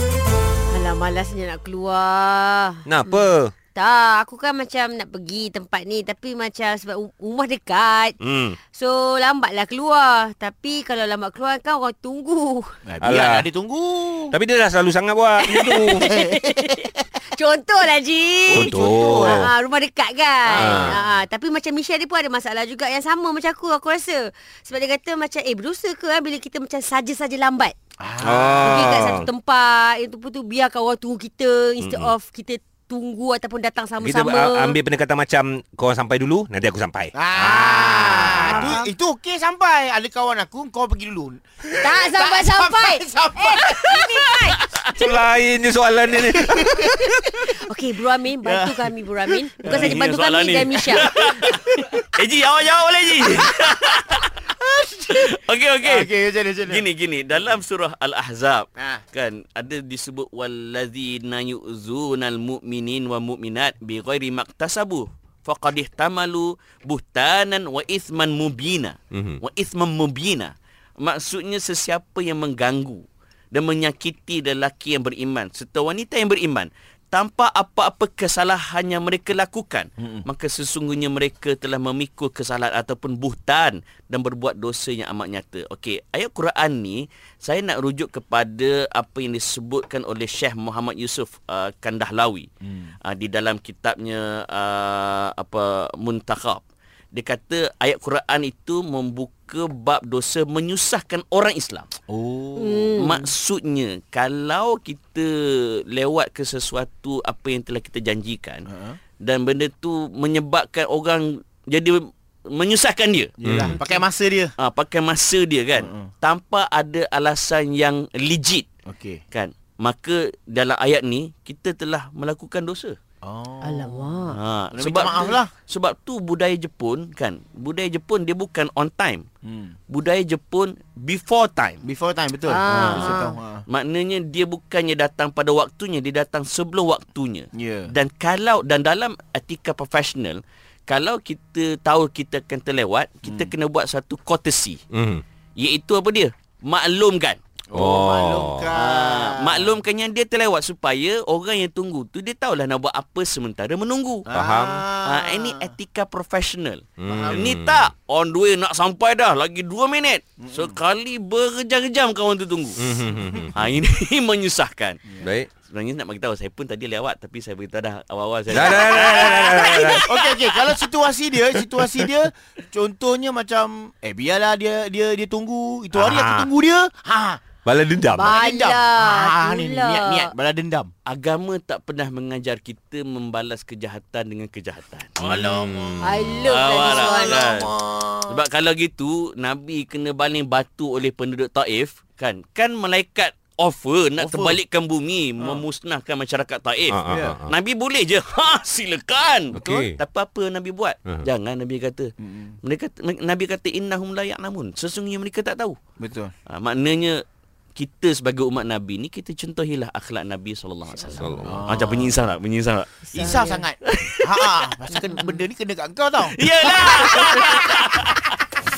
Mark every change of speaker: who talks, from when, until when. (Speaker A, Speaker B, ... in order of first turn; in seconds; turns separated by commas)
Speaker A: 0.7-8.2, Speaker B: 2.9-3.5, Speaker B: 8.2-8.6, Speaker A: 8.7-12.7, Speaker C: 12.9-14.3, Speaker B: 13.0-13.5, Speaker B: 14.3-16.1, Speaker A: 15.4-27.8, Speaker C: 16.0-16.4, Speaker C: 18.5-19.4, Speaker B: 18.5-19.5, Speaker B: 20.5-21.0, Speaker C: 20.6-20.9, Speaker C: 28.0-28.8, Speaker B: 28.2-29.3, Speaker A: 28.6-34.8, Speaker B: 31.8-32.1, Speaker B: 34.0-38.8, Speaker C: 37.1-44.5, Speaker A: 37.7-38.9, Speaker A: 41.8-44.6, Speaker B: 44.9-47.1, Speaker C: 46.3-46.7, Speaker A: 47.4-51.2, Speaker D: 49.6-54.3, Speaker C: 49.6-50.0, Speaker C: 51.1-51.6, Speaker C: 54.4-55.3, Speaker D: 55.1-56.1, Speaker C: 55.8-56.9, Speaker D: 56.6-92.5, Speaker B: 69.1-69.4, Speaker C: 80.0-80.3, Speaker D: 93.0-101.9, Speaker C: 102.1-102.9, Speaker A: 102.6-103.3, Speaker D: 103.0-108.7, Speaker C: 108.7-109.0, Speaker D: 109.2-113.5, Speaker C: 113.4-114.5, Speaker B: 113.4-113.8, Speaker D: 114.6-118.7, Speaker C: 115.8-116.1, Speaker C: 118.9-119.2, Speaker D: 119.3-123.0, Speaker C: 123.2-124.0, Speaker A: 123.6-124.4, Speaker D: 124.3-129.2, Speaker C: 124.7-125.5, Speaker C: 129.4-129.8, Speaker D: 129.9-131.8, Speaker C: 131.8-133.6, Speaker A: 132.5-133.3, Speaker D: 132.7-144.8, Speaker C: 137.5-137.9, Speaker C: 143.2-143.5, Speaker B: 144.9-145.2, Speaker D: 145.6-147.4, Speaker C: 147.7-149.8, Speaker B: 147.7-148.7, Speaker D: 148.7-154.3, Speaker C: 154.3-155.7, Speaker B: 154.3-154.8, Speaker D: 155.0-163.0, Speaker B: 157.0-157.9, Speaker C: 157.1-157.5, Speaker C: 160.4-160.8, Speaker B: 162.8-163.7, Speaker D: 163.5-171.7, Speaker B: 165.2-165.5, Speaker B: 168.5-170.1, Speaker C: 168.6-177.4, Speaker B: 175.9-176.5, Speaker B: 177.6-178.3, Speaker A: 178.1-180.3, Speaker C: 178.2-180.9, Speaker D: 181.1-185.5, Speaker B: 185.2-186.2, Speaker C: 185.2-186.0, Speaker A: 186.0-187.7, Speaker D: 186.4-205.8, Speaker C: 186.8-188.4, Speaker C: 194.2-194.6, Speaker C: 195.4-195.6, Speaker B: 196.9-197.5, Speaker C: 197.1-197.4, Speaker B: 199.5-200.0, Speaker C: 199.6-199.9, Speaker C: 202.2-202.6, Speaker C: 206.0-206.3, Speaker D: 206.5-207.2, Speaker D: 207.8-213.1, Speaker B: 211.2-211.6, Speaker C: 211.4-212.2, Speaker C: 213.1-217.9, Speaker A: 213.1-213.6, Speaker D: 213.8-214.7, Speaker A: 214.9-215.3, Speaker D: 216.2-218.3